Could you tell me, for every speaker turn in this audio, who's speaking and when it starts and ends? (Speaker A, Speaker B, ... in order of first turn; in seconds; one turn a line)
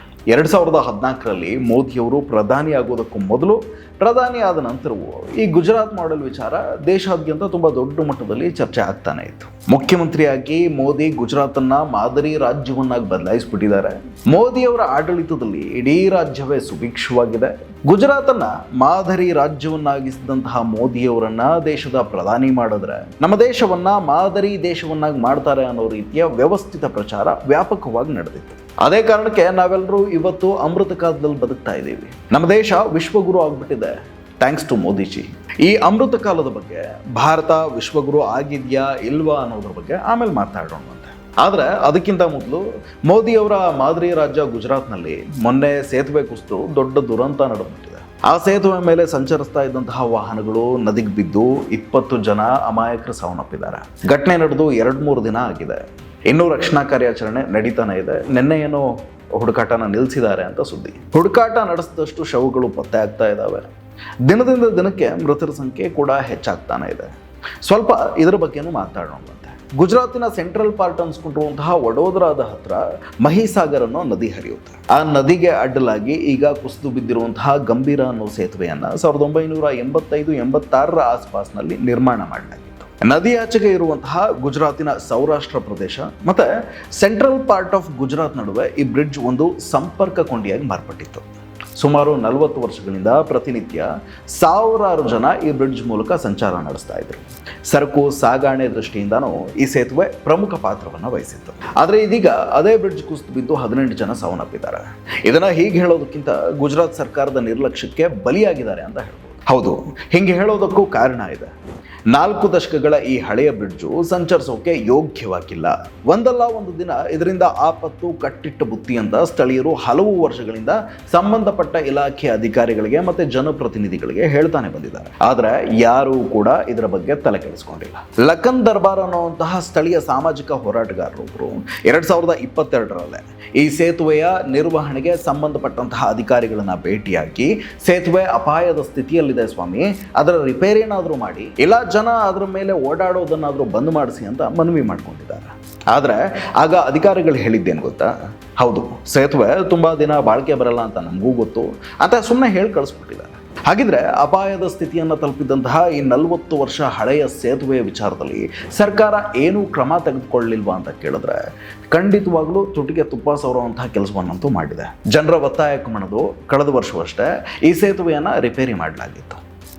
Speaker A: 0.3-63.7
Speaker A: 64.2-67.1
Speaker A: 67.6-86.5
Speaker A: 87.0-91.2
Speaker A: 91.8-111.5
Speaker A: 112.1-161.4
Speaker A: 161.9-169.4